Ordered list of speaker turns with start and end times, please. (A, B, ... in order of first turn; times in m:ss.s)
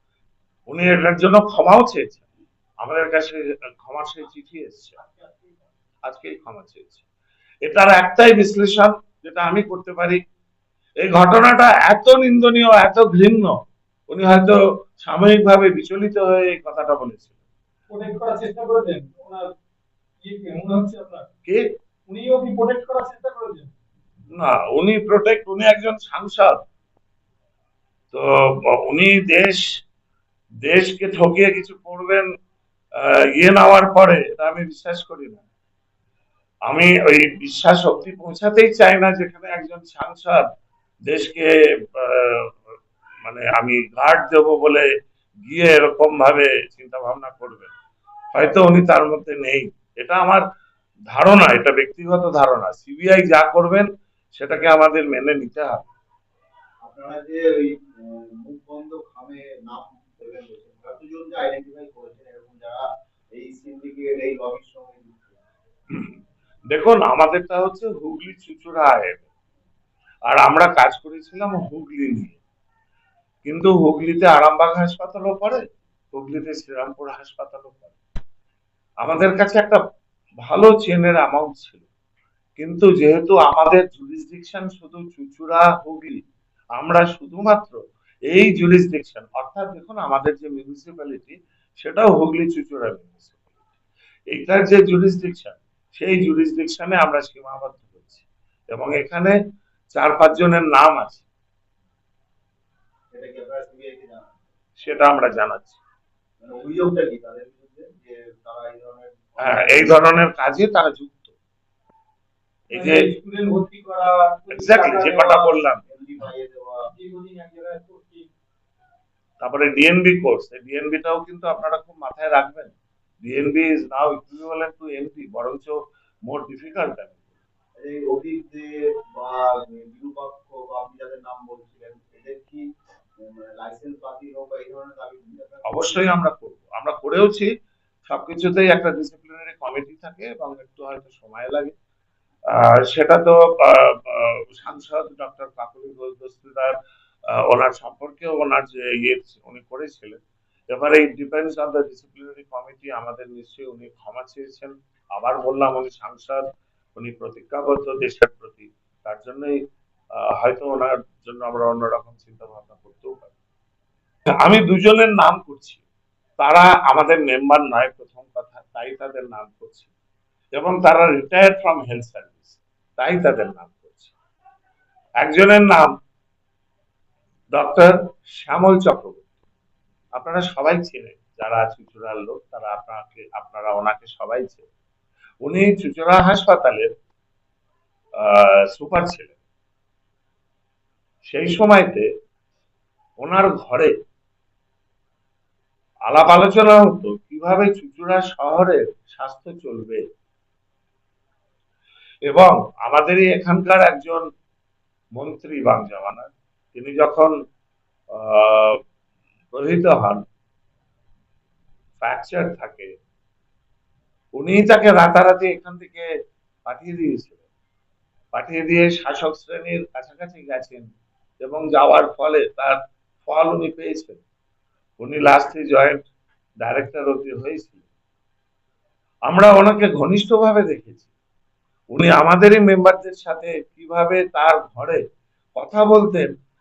0:00.7-0:02.2 A
0:02.8-0:05.0 A
0:06.1-0:07.0 A
0:07.7-0:10.2 A
0:11.0-0:13.6 A
0:14.1-0:17.3 A
0:17.9-0:19.5 B
0:20.2-0:21.3 B
0:22.1-0:23.7 B
0:24.4-0:26.6 A
0:28.9-0:29.6 A
0:30.6-0:32.3 A
0:33.0-0:35.4 A
0:36.7-0:40.4 A
0:41.1-0:42.5 A
0:43.3-0:44.9 A
0:45.5-0:47.7 A
0:48.3-0:50.4 A
0:51.1-0:55.9 A
0:56.8-1:05.4 C
1:06.7-1:09.3 A
1:10.3-1:12.4 A
1:13.4-1:15.6 A
1:16.1-1:18.0 A
1:19.0-1:19.8 A
1:20.4-1:21.8 A
1:22.6-1:26.2 A
1:26.8-1:33.4 A
1:34.3-1:39.3 A
1:40.0-1:41.3 A
1:43.1-1:44.3 C
1:44.8-1:45.8 A
1:46.4-1:50.0 C
1:49.4-1:51.3 A
1:52.7-1:53.0 A
1:52.7-1:55.6 B
1:54.5-1:55.8 A
1:55.9-1:56.9 C
1:56.9-1:58.3 B
1:59.4-2:05.7 A
2:06.3-2:07.2 A
2:07.8-2:12.6 C
2:13.2-2:16.1 C
2:15.7-2:17.5 A
2:18.1-2:21.7 A
2:22.9-2:26.8 A
2:27.5-2:30.2 A
2:30.7-2:36.4 A
2:37.0-2:39.6 A
2:40.4-2:43.3 A
2:44.4-2:45.8 A
2:46.4-2:49.9 A
2:50.6-2:54.2 A
2:55.2-2:55.9 A
2:57.5-2:59.2 A
3:00.2-3:04.7 A
3:05.4-3:06.9 A
3:08.2-3:09.3 A
3:11.3-3:12.1 A
3:13.2-3:13.9 A
3:16.1-3:20.0 A
3:22.3-3:24.2 A
3:25.2-3:27.3 A
3:28.2-3:28.8 A
3:29.5-3:30.2 A
3:32.0-3:32.9 A
3:34.4-3:36.1 A
3:36.7-3:37.4 A
3:38.3-3:40.9 A
3:41.4-3:44.2 A
3:45.0-3:46.1 A
3:46.6-3:47.8 A
3:49.3-3:51.1 A
3:51.9-3:55.0 A
3:55.6-3:56.3 A